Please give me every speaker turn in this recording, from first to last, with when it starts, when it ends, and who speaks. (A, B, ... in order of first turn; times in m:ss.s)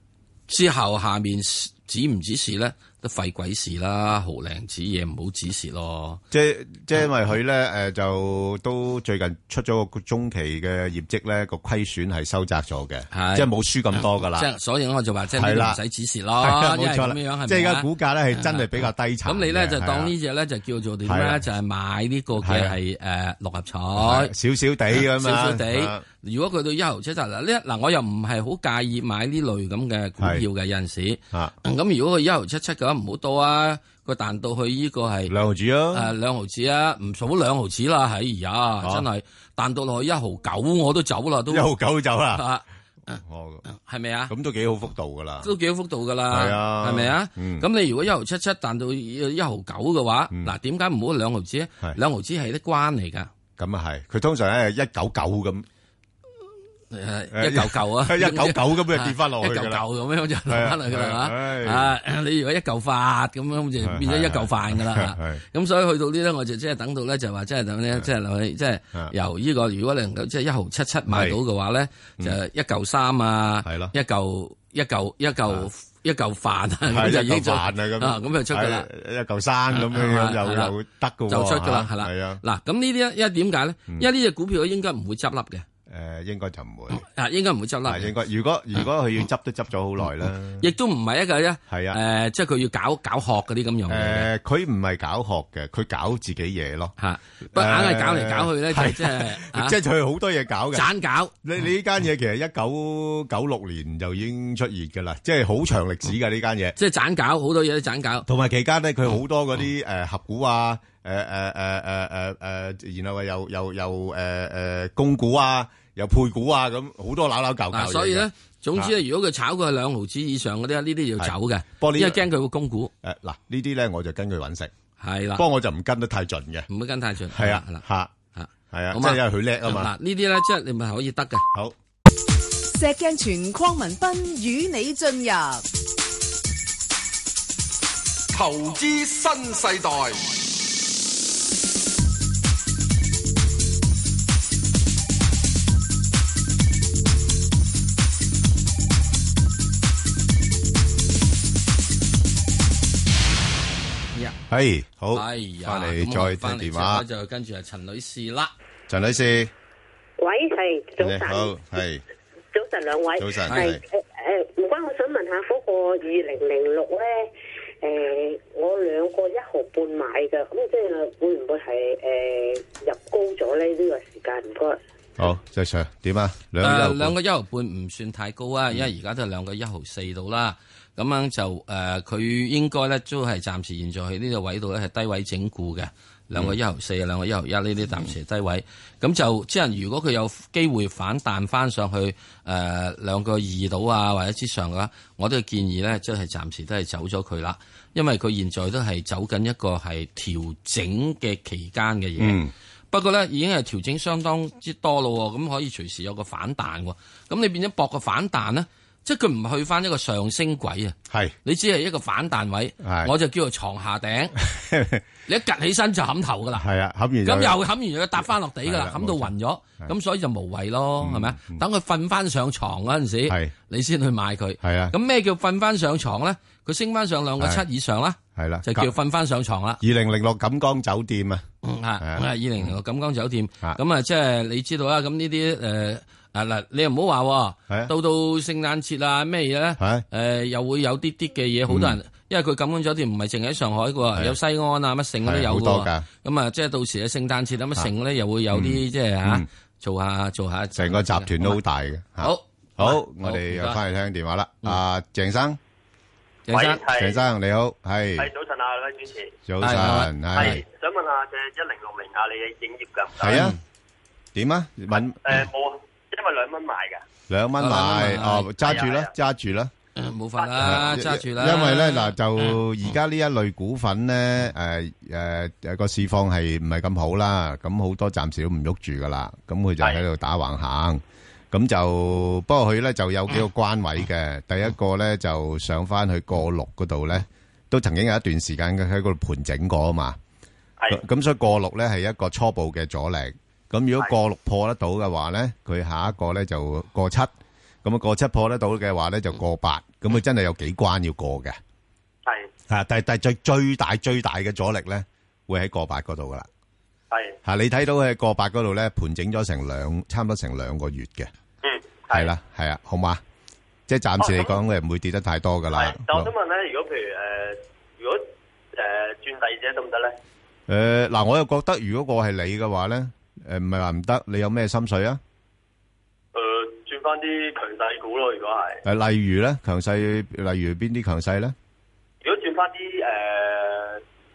0:00.5-0:06.2 A
0:06.3-0:14.5 B
0:13.1-0:24.3 A
0:15.3-0:15.8 B
0:16.4-0:20.1 B
0:21.0-0:21.4 B
0:22.4-0:22.8 B
0:24.0-0:26.0 B
0:24.9-0:35.3 A
0:30.2-0:30.4 B
0:35.3-0:36.1 B
0:35.9-0:41.7 A
0:38.8-0:39.1 B
0:41.5-0:42.4 B
0:42.3-0:44.3 A
0:43.1-0:43.6 B
0:44.3-0:45.5 B
0:45.4-0:53.3 A
0:46.3-0:47.7 B
0:53.6-0:55.7 B
0:56.9-1:18.9 A
0:57.3-0:59.8 B
1:00.5-1:01.9 B
1:03.8-1:05.4 B
1:11.1-1:11.4 B
1:13.6-1:13.9 B
1:16.9-1:22.4 B
1:19.7-1:20.8 A
1:21.3-1:25.7 A
1:25.9-1:27.0 B
1:26.9-1:28.1 A
1:27.9-1:30.7 B
1:30.6-1:34.3 A
1:31.7-1:32.0 B
1:33.9-1:37.0 B
1:37.0-1:39.8 A
1:37.5-1:40.9 B
1:40.7-1:41.4 A
1:41.4-1:46.8 B
1:46.8-1:48.3 A
1:48.3-1:58.9 B
1:57.7-2:02.9 A
2:01.2-2:02.2 B
2:03.0-2:04.7 B
2:05.0-2:05.4 A
2:05.4-2:06.7 B
2:06.7-2:11.5 A
2:07.3-2:08.1 B
2:08.7-2:09.9 B
2:12.7-2:15.6 C
2:18.3-2:20.4 D
2:34.5-2:37.0 B
2:35.1-2:38.5 A
2:38.9-2:39.5 B
2:40.2-2:41.6 E
2:41.0-2:42.0 B
2:42.5-2:54.8 E
2:43.2-2:43.8 B
2:43.5-2:43.8 A
2:55.2-2:57.2 B
2:56.6-3:34.4 A
3:22.2-3:22.5 B
3:31.1-3:31.4 B
3:32.8-3:33.1 B
3:34.4-3:35.0 B
3:35.3-3:36.6 A
3:36.6-3:37.6 B
3:37.2-3:49.8 A
3:38.2-3:39.9 B
3:41.0-3:41.6 B
3:43.3-3:43.5 B
3:44.6-3:45.0 B
3:47.4-3:47.6 B
3:48.4-3:48.9 B
3:49.8-3:51.4 B
3:51.6-4:11.6 A
3:52.0-3:52.8 B
3:59.8-4:00.0 B
4:01.7-4:02.0 B
4:05.2-4:06.1 B
4:08.5-4:09.5 B
4:10.8-4:15.6 B
4:12.2-4:13.8 A
4:16.5-4:16.8 A
4:16.5-4:17.2 F
4:16.8-4:18.3 B
4:18.2-4:19.4 F
4:19.4-4:20.6 B
4:19.6-4:20.6 A
4:20.3-4:23.5 F
4:23.2-4:23.6 B
4:23.3-4:23.6 A
4:24.4-4:25.5 B
4:24.9-4:27.0 F
4:27.3-4:29.7 B
4:27.6-4:28.6 A
4:28.6-4:29.1 F
4:30.0-4:32.6 A
4:30.4-4:31.0 F
4:30.6-4:50.2 B
4:50.9-4:57.3 B
4:57.8-5:01.6 B
5:02.3-5:02.5 F
5:02.7-5:06.5 B
5:07.1-5:07.4 F
5:07.4-5:11.3 B
5:11.6-5:12.3 F
5:12.1-5:13.2 B
5:13.9-5:16.3 B
5:14.2-5:14.6 F
5:15.7-5:20.2 F
5:20.7-5:25.2 B
5:26.3-5:28.8 F
5:28.8-5:31.6 B
5:32.2-5:34.0 F